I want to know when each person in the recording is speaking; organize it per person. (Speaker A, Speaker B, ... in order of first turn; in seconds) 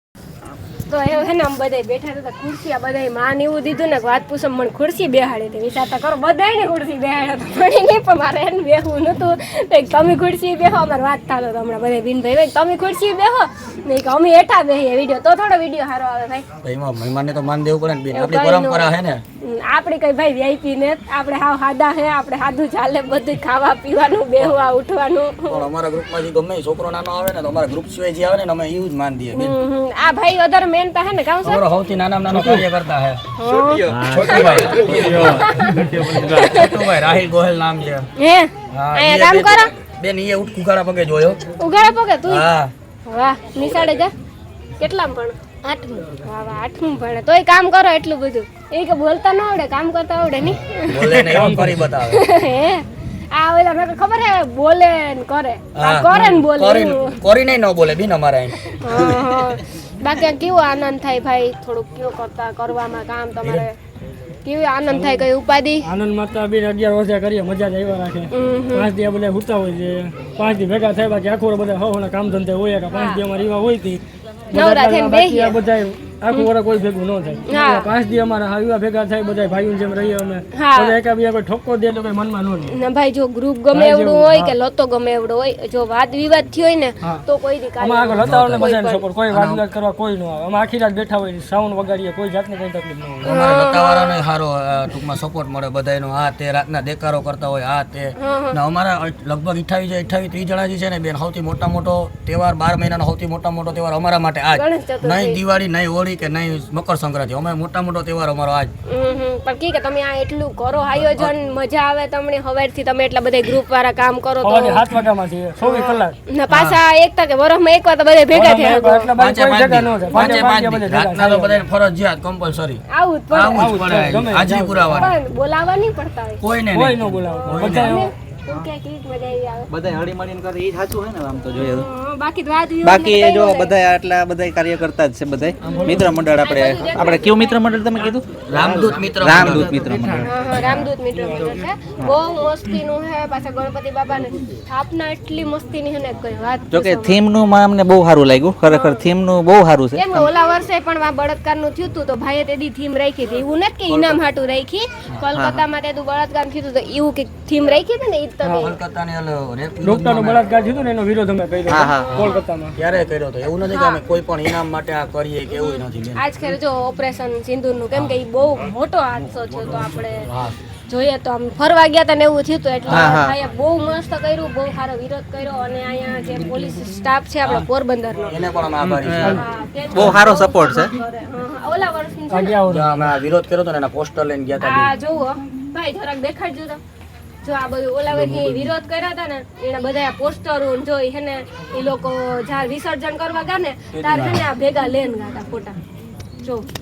Speaker A: 0.9-16.4, 18.1-18.9, 19.4-25.6, 29.3-31.6, 33.4-36.7, 38.2-39.7, 41.6-42.4, 43.1-44.1, 44.8-51.4, 52.1-57.2, 58.7-63.7, 64.4-65.9, 68.3-68.9, 72.9-73.2, 74.5-75.6, 77.5-77.9, 80.5-81.0, 82.7-89.0, 93.3-94.2, 98.2-98.6, 104.5-105.4, 108.9-114.8, 115.6-119.1, 122.9-123.7, 124.9-126.4, 127.4-129.7, 131.8-133.8, 136.4-137.6, 140.2-147.2, 148.7-149.1, 149.9-158.7, 162.1-162.4, 163.7-164.0, 165.5-170.3, 170.9-178.3, 179.2-182.6, 184.6-186.8, 187.4-195.8
Speaker B: 16.6-19.2, 25.5-29.5, 31.4-33.2, 34.0-35.4, 36.2-38.1, 38.7-41.4, 42.3-42.7, 50.9-52.2, 55.7-58.5, 88.2-88.7, 89.3-89.6, 93.2-108.7, 116.5-116.8, 119.2-122.8, 123.3-125.1, 126.4-128.1, 138.5-139.9, 153.9-154.2, 158.6-160.4, 162.8-166.2, 170.2-170.6, 178.3-179.4, 182.7-184.9, 193.9-194.5
Speaker C: 33.9-35.1, 129.7-131.9, 132.8-140.6, 146.7-150.3, 155.3-155.6, 161.7-162.2, 172.9-173.3, 178.8-179.4, 179.9-180.9
Speaker D: 51.3-51.8, 64.9-65.2, 65.8-82.7, 83.7-84.5, 87.8-93.3, 114.4-116.2, 118.3-121.6, 123.5-125.1, 126.7-128.1, 135.7-136.1, 141.1-141.5, 158.4-158.7, 159.8-162.7, 182.3-182.9